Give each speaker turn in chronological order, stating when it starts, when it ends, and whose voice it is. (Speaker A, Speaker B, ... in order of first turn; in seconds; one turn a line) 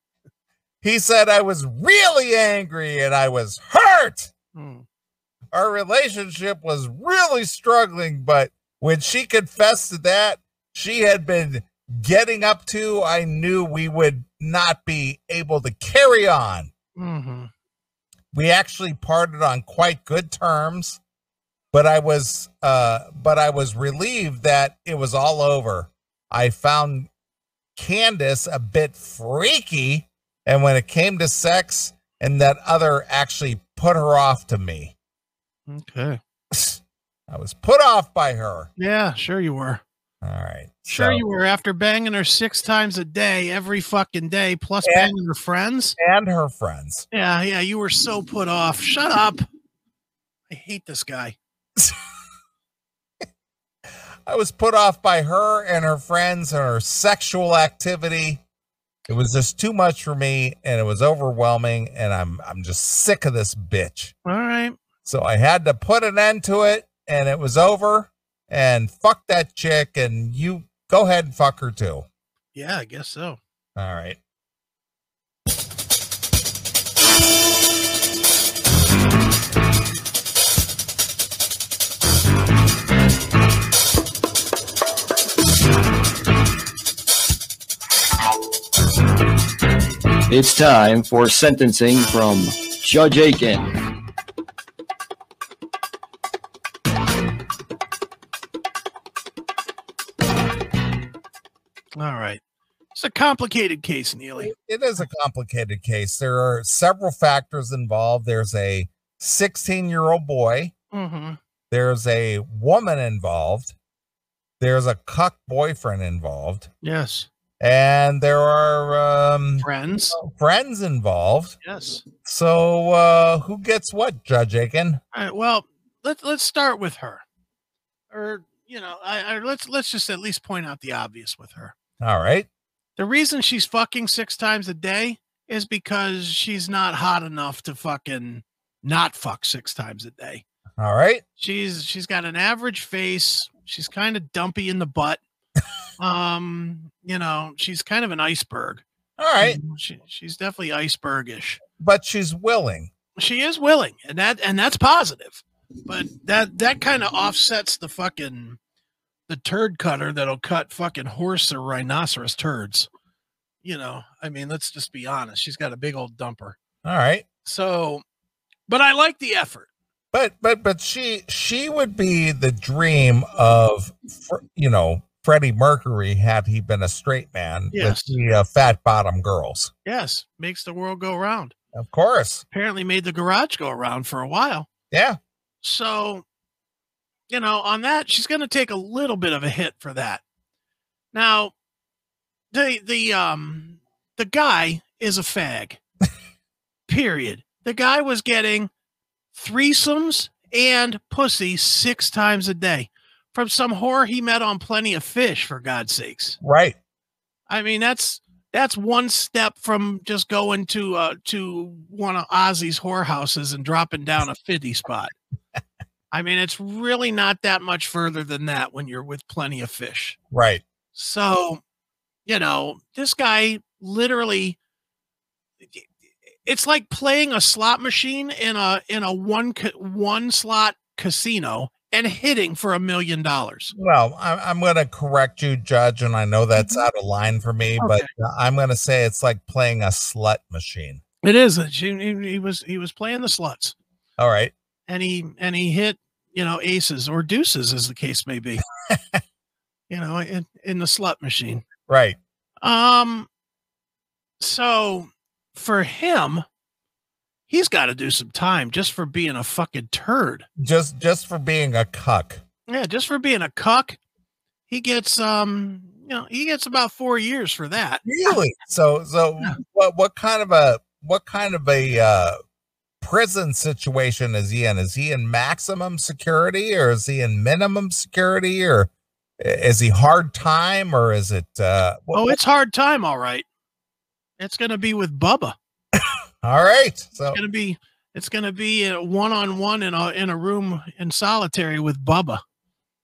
Speaker A: 0.8-4.3
Speaker B: 4.5-4.8
Speaker A: 5.5-16.7
Speaker B: 17.0-17.5
Speaker A: 18.3-21.0
Speaker A: 21.7-27.1
Speaker A: 27.8-34.9
Speaker B: 35.7-36.2
Speaker A: 36.5-38.7
Speaker B: 38.8-39.8
Speaker A: 40.2-41.2
Speaker B: 40.9-46.0
Speaker A: 44.8-45.1
Speaker A: 46.0-47.0
Speaker B: 47.1-49.4
Speaker B: 50.5-51.4
Speaker A: 54.2-58.4
Speaker A: 59.1-64.1
Speaker B: 64.2-64.8
Speaker A: 65.0-72.0
Speaker B: 72.5-73.4
Speaker A: 73.8-74.2
Speaker C: 90.3-93.7
Speaker B: 102.0-102.4
Speaker B: 102.9-104.5
Speaker A: 104.4-110.7
Speaker B: 110.9-111.4
Speaker A: 111.7-113.7
Speaker A: 114.6-116.7
Speaker B: 116.8-117.3
Speaker A: 117.6-121.6
Speaker B: 119.6-120.2
Speaker B: 121.6-122.0
Speaker A: 122.2-125.0
Speaker B: 125.1-127.2
Speaker B: 128.1-131.7
Speaker A: 132.0-132.5
Speaker B: 133.0-140.4
Speaker A: 140.8-141.2
Speaker B: 141.4-145.2
Speaker B: 146.0-148.8
Speaker A: 149.2-149.6
Speaker B: 149.4-151.6
Speaker A: 151.8-152.9
Speaker B: 153.2-158.6
Speaker B: 159.3-162.9
Speaker B: 163.6-166.6
Speaker A: 166.8-167.3
Speaker B: 167.4-168.0
Speaker B: 168.7-169.7
Speaker A: 170.1-179.7
Speaker B: 177.7-178.2
Speaker B: 179.8-181.5
Speaker A: 181.7-182.4
Speaker B: 182.5-184.7
Speaker A: 184.9-185.2
Speaker B: 185.6-186.2
Speaker B: 187.3-190.2
Speaker B: 191.1-191.5
Speaker B: 192.5-195.8
Speaker B: 196.9-198.7
Speaker B: 199.3-206.4
Speaker A: 206.4-206.8
Speaker B: 207.5-215.1
Speaker B: 216.1-220.2
Speaker A: 220.3-220.6
Speaker B: 220.9-221.6
Speaker B: 222.2-224.6
Speaker B: 225.6-225.9
Speaker B: 226.4-233.7
Speaker A: 233.8-241.0
Speaker B: 236.6-236.8
Speaker B: 237.8-238.1
Speaker B: 241.2-243.7
Speaker A: 244.2-244.5
Speaker B: 244.9-248.6
Speaker A: 248.9-249.2
Speaker B: 249.9-251.6
Speaker A: 251.9-252.2
Speaker B: 252.6-253.3
Speaker B: 254.4-256.4
Speaker B: 257.5-260.5
Speaker A: 260.6-262.4
Speaker B: 262.7-264.0
Speaker B: 264.7-268.1
Speaker A: 268.0-272.4
Speaker A: 273.0-282.4
Speaker B: 282.1-283.4
Speaker B: 284.4-285.5
Speaker A: 286.0-287.4
Speaker B: 287.3-292.4